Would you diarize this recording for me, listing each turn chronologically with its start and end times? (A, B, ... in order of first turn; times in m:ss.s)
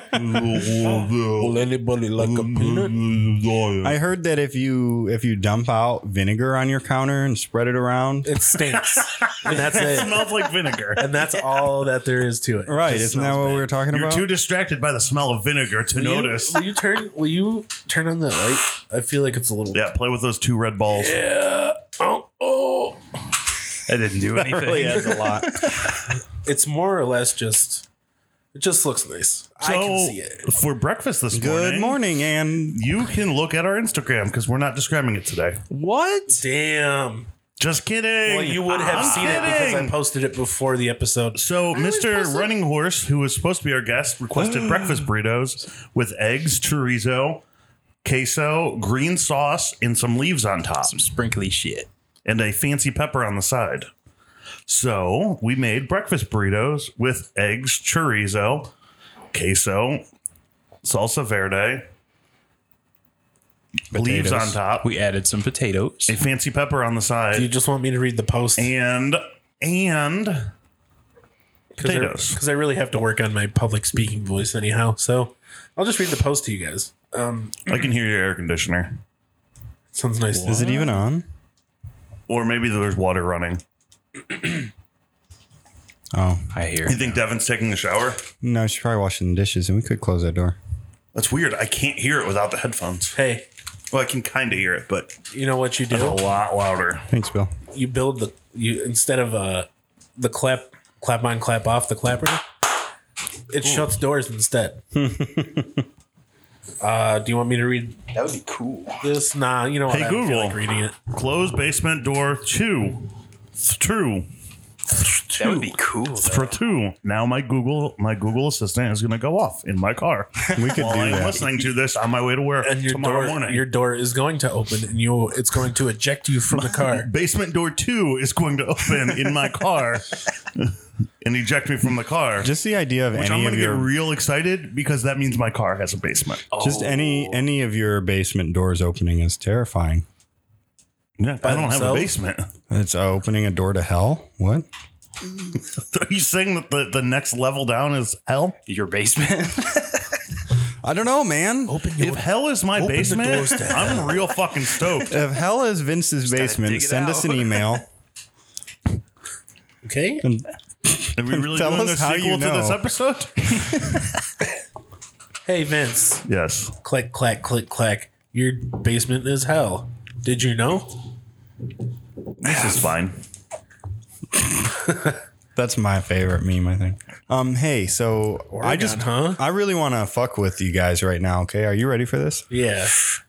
0:00.1-0:01.5 A
0:00.8-0:03.0 B
0:03.1-0:03.9 A
0:03.8-0:08.4 C
0:08.2-0:10.3 B
0:09.1-0:11.0 A
0:11.0-0:13.7 B
0:12.6-0:14.3 C
0:13.9-0:16.6 A
0:15.9-0:19.8 B
0:19.7-0:21.2 A
0:20.9-0:23.0 B
0:23.9-0:26.0 D
0:24.4-0:25.6 C
0:26.4-0:27.8 B
0:28.5-0:30.4 B
0:29.6-0:32.0 A
0:31.3-0:32.9 C
0:32.7-0:35.6 A
0:35.7-0:36.4 D
0:36.3-0:37.3 B
0:37.6-0:40.0 A
0:38.2-0:42.5 B
0:38.7-0:39.6 D
0:41.3-0:47.4 A
0:48.0-0:51.0 A
0:50.8-0:51.9 D
0:52.2-0:53.9 A
0:54.7-0:58.7 A
0:59.3-1:00.0 A
1:00.8-1:01.8 A
1:03.9-1:04.6 C
1:03.9-1:04.9 A
1:04.8-1:06.2 D
1:06.1-1:07.5 A
1:07.3-1:08.7 B
1:08.6-1:10.5 A
1:11.8-1:17.6 B
1:11.8-1:12.4 A
1:17.7-1:19.0 A
1:19.9-1:20.9 B
1:20.3-1:20.9 D
1:20.4-1:21.2 C
1:22.3-1:23.6 A
1:26.1-1:26.5 C
1:26.5-1:27.2 D
1:26.8-1:28.2 A
1:28.4-1:30.6 C
1:31.1-1:33.2 A
1:33.1-1:33.4 B
1:33.9-1:35.2 A
1:35.3-1:36.2 B
1:35.9-1:37.0 A
1:37.1-1:37.5 C
1:37.7-1:42.4 B
1:43.5-1:44.8 B
1:43.6-1:43.9 A
1:44.9-1:45.8 C
1:46.8-1:48.0 B
1:48.1-1:49.1 D
1:49.0-1:51.0 B
1:49.9-1:53.1 A
1:53.6-1:54.3 A
1:55.4-1:56.5 D
1:56.2-2:03.6 A
2:00.5-2:01.5 C
2:02.6-2:07.1 B
2:06.5-2:12.5 A
2:12.4-2:13.9 C
2:13.1-2:16.5 A
2:16.5-2:17.5 D
2:16.6-2:20.0 C
2:21.2-2:22.5 A
2:21.4-2:22.1 B
2:22.7-2:24.7 C
2:25.5-2:28.6 A
2:28.7-2:30.2 D
2:30.8-2:31.8 C
2:31.7-2:34.4 B
2:32.0-2:35.2 A
2:35.0-2:37.8 C
2:36.2-2:37.8 D
2:39.8-2:40.3 B
2:40.2-2:42.9 C
2:41.1-2:43.6 A
2:45.4-2:46.2 B
2:46.2-2:46.8 A
2:46.8-2:51.0 B
2:52.4-2:53.2 A
2:55.5-3:02.5 C
2:58.5-2:59.4 B
3:02.5-3:03.0 B